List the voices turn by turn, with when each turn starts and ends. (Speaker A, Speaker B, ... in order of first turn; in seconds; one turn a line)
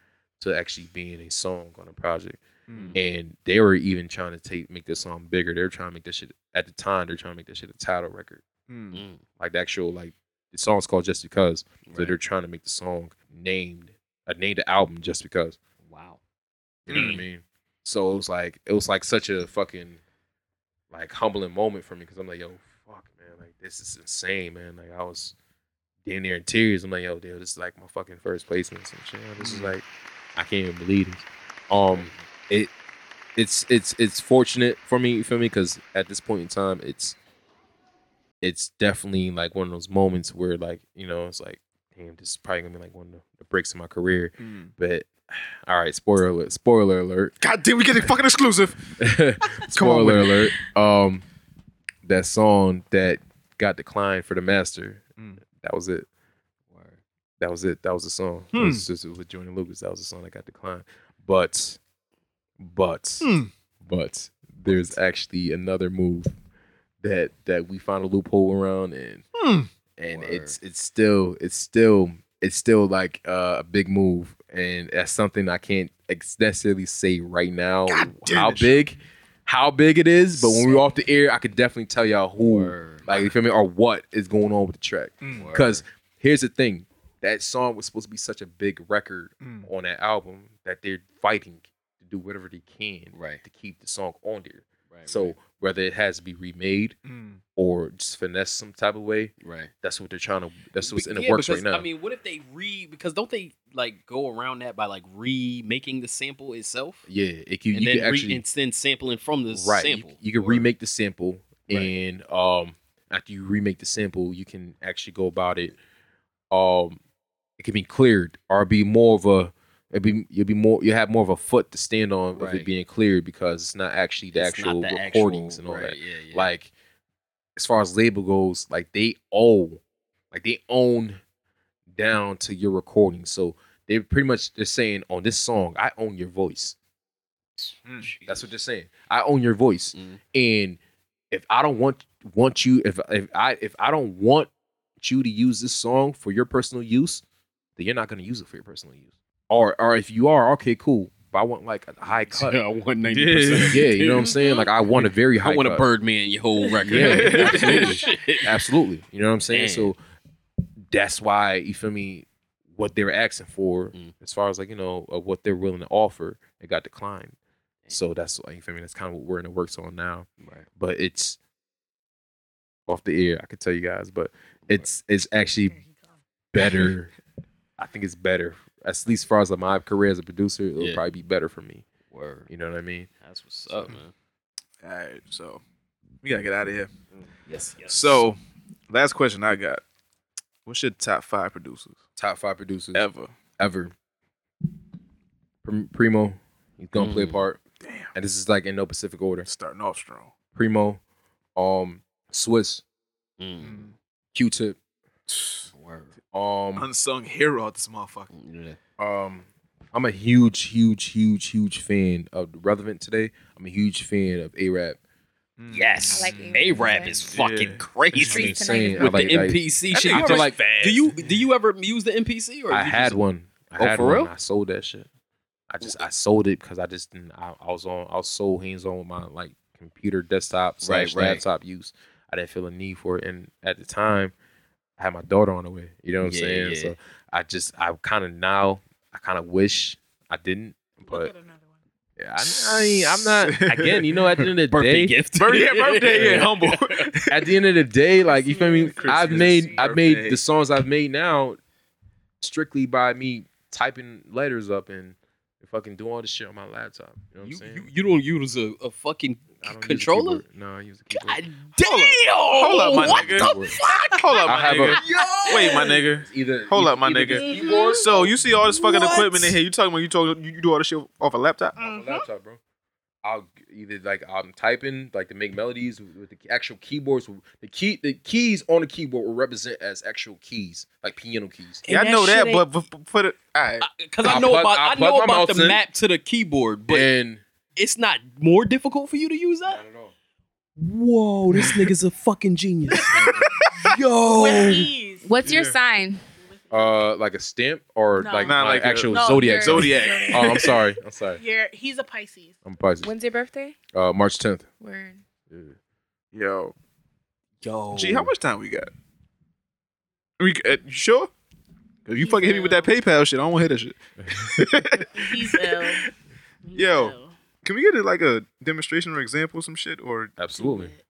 Speaker A: 0.4-2.4
Speaker B: 2.7-3.0
Speaker C: 2.7-3.0
Speaker A: 2.9-8.4
Speaker B: 8.7-9.0
Speaker C: 8.9-9.2
Speaker A: 9.4-15.6
Speaker C: 11.9-12.2
Speaker C: 15.9-16.2
Speaker A: 16.9-20.0
Speaker B: 16.9-17.2
Speaker C: 16.9-17.2
Speaker A: 20.9-25.3
Speaker A: 26.0-29.8
Speaker B: 29.4-29.7
Speaker A: 30.3-32.7
Speaker C: 31.8-32.3
Speaker A: 33.4-37.1
Speaker A: 38.4-45.1
Speaker B: 44.4-44.7
Speaker A: 45.6-47.3
Speaker B: 47.4-48.9
Speaker A: 49.0-51.2
Speaker B: 49.7-50.5
Speaker A: 52.0-55.0
Speaker A: 55.6-56.0
Speaker C: 56.7-57.0
Speaker A: 57.4-61.8
Speaker B: 58.5-58.9
Speaker A: 62.6-63.3
Speaker B: 63.2-63.5
Speaker A: 63.8-66.3
Speaker A: 67.0-69.2
Speaker B: 69.3-69.7
Speaker A: 70.0-97.0
Speaker C: 70.1-70.5
Speaker B: 77.9-78.9
Speaker C: 80.4-80.9
Speaker C: 82.5-83.1
Speaker B: 85.2-85.5
Speaker C: 85.3-85.8
Speaker B: 89.4-89.7
Speaker C: 93.1-93.4
Speaker C: 94.9-95.3
Speaker B: 97.0-97.4
Speaker A: 97.5-101.8
Speaker C: 99.4-99.7
Speaker C: 100.8-107.1
Speaker A: 107.1-108.4
Speaker C: 107.7-110.7
Speaker A: 109.5-115.8
Speaker C: 111.7-111.9
Speaker A: 116.5-117.0
Speaker A: 117.6-126.7
Speaker C: 122.3-122.7
Speaker C: 124.3-126.5
Speaker A: 127.5-129.8
Speaker A: 130.3-131.2
Speaker A: 131.9-136.8
Speaker B: 137.8-138.1
Speaker C: 138.0-138.5
Speaker A: 138.3-140.8
Speaker C: 139.9-140.2
Speaker A: 141.3-147.2
Speaker A: 147.8-152.6
Speaker C: 152.2-154.4
Speaker B: 153.1-153.9
Speaker A: 153.7-155.8
Speaker D: 154.3-154.7
Speaker C: 154.9-158.6
Speaker A: 156.8-160.0
Speaker B: 156.9-157.9
Speaker D: 157.2-158.2
Speaker C: 159.5-159.9
Speaker A: 160.9-167.3
Speaker A: 167.9-171.4
Speaker A: 172.9-175.8
Speaker D: 175.7-176.2
Speaker A: 176.5-177.1
Speaker A: 177.8-181.9
Speaker C: 180.8-181.0
Speaker C: 182.1-182.5
Speaker A: 182.5-183.1
Speaker C: 183.2-184.1
Speaker B: 184.8-185.6
Speaker B: 186.2-186.9
Speaker C: 187.2-188.2
Speaker B: 187.8-189.8
Speaker B: 190.6-192.0
Speaker A: 192.2-193.1
Speaker B: 192.9-193.3
Speaker A: 193.6-193.9
Speaker A: 195.6-197.6
Speaker C: 196.9-197.4
Speaker B: 197.8-198.1
Speaker A: 198.1-199.5
Speaker B: 199.4-200.3
Speaker A: 200.5-201.0
Speaker A: 201.6-202.8
Speaker C: 203.4-203.8
Speaker B: 203.6-203.9
Speaker A: 204.3-204.8
Speaker B: 205.3-205.7
Speaker C: 205.7-206.1
Speaker A: 206.3-206.9
Speaker B: 206.7-208.3
Speaker C: 208.3-208.8
Speaker A: 209.0-215.0
Speaker B: 215.6-217.9
Speaker C: 215.7-223.2
Speaker E: 216.1-217.4
Speaker E: 218.1-219.4
Speaker A: 218.1-221.1
Speaker B: 219.9-220.6
Speaker B: 221.2-221.4
Speaker A: 222.7-225.1
Speaker C: 223.8-224.3
Speaker A: 225.7-234.3
Speaker C: 230.8-231.4
Speaker A: 235.0-241.3
Speaker C: 236.2-236.9
Speaker D: 241.0-241.8
Speaker A: 242.2-245.2
Speaker B: 242.4-244.5
Speaker C: 244.7-246.9
Speaker B: 245.4-247.3
Speaker A: 246.1-246.5
Speaker A: 247.3-251.6
Speaker D: 248.2-249.8
Speaker B: 248.8-250.4
Speaker A: 252.4-257.9
Speaker C: 257.4-260.4
Speaker A: 259.6-261.4
Speaker C: 261.1-265.9
Speaker B: 261.8-263.5
Speaker A: 262.9-263.7
Speaker B: 264.1-271.8
Speaker A: 264.4-265.1
Speaker D: 265.0-265.9
Speaker A: 266.1-268.4
Speaker A: 269.1-269.4
Speaker A: 271.8-272.6
Speaker D: 271.8-272.2
Speaker A: 273.2-281.9
Speaker E: 281.9-282.7
Speaker B: 281.9-283.9
Speaker C: 283.8-287.1
Speaker A: 284.2-285.8
Speaker A: 286.9-287.4
Speaker C: 287.8-289.8
Speaker A: 289.7-290.1
Speaker A: 290.8-294.9
Speaker B: 291.5-291.8
Speaker B: 293.0-293.9
Speaker D: 294.3-295.5
Speaker E: 295.2-296.2
Speaker B: 295.4-295.8
Speaker D: 296.4-297.0
Speaker A: 296.7-301.4
Speaker D: 298.2-300.8
Speaker B: 298.4-300.8
Speaker D: 301.4-302.6
Speaker A: 302.6-303.1
Speaker E: 303.0-303.8
Speaker A: 303.9-304.7
Speaker E: 304.8-305.2
Speaker A: 305.5-305.8
Speaker B: 306.3-306.7
Speaker A: 307.6-308.3
Speaker B: 307.9-308.9
Speaker B: 310.4-311.3
Speaker B: 312.1-315.9
Speaker D: 312.2-312.9
Speaker A: 314.2-314.6
Speaker D: 315.1-316.0
Speaker D: 316.6-317.3
Speaker B: 316.7-320.3
Speaker A: 320.4-320.9
Speaker D: 320.6-321.0